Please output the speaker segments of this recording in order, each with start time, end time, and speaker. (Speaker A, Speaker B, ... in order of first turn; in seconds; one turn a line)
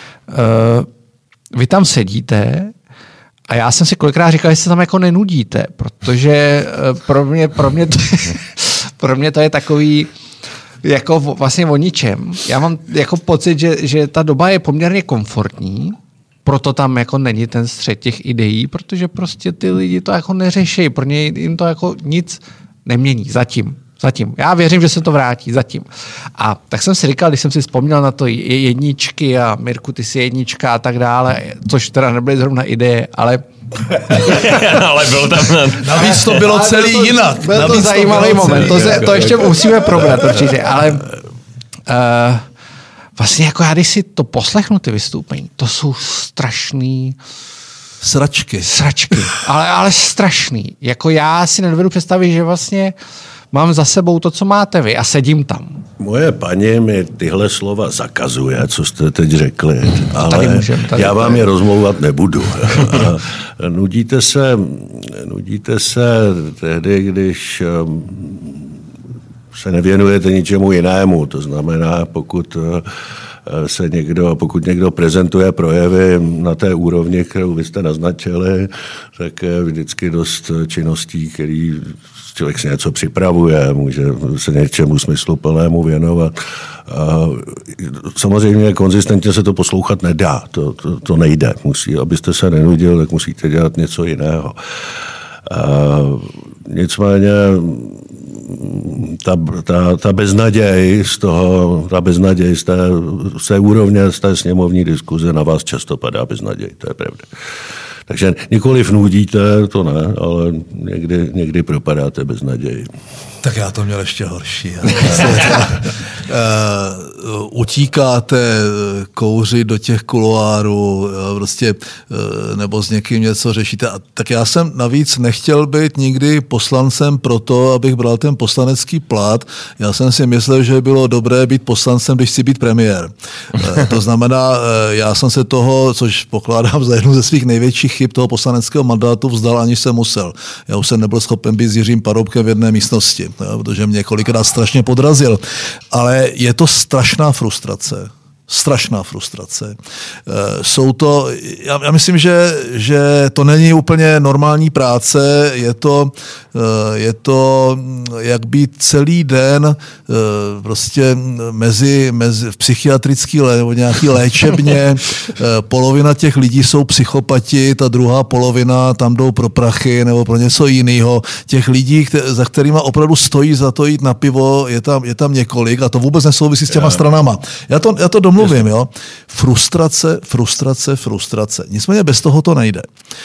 Speaker A: 0.3-0.9
Speaker A: 1.5-2.7
Speaker A: 3.5-10.1
Speaker A: 10.8-33.5
Speaker A: 34.1-34.6
Speaker B: 34.1-36.5
Speaker C: 35.8-39.5
Speaker A: 36.0-41.1
Speaker A: 41.9-42.4
Speaker A: 43.1-47.2
Speaker C: 48.0-48.7
Speaker A: 48.6-52.9
Speaker A: 53.5-55.8
Speaker D: 56.0-68.7
Speaker A: 60.2-61.5
Speaker D: 69.5-72.9
Speaker D: 73.5-86.3
Speaker D: 86.9-94.6
Speaker D: 95.5-107.3
Speaker D: 108.1-112.9
Speaker C: 113.4-182.9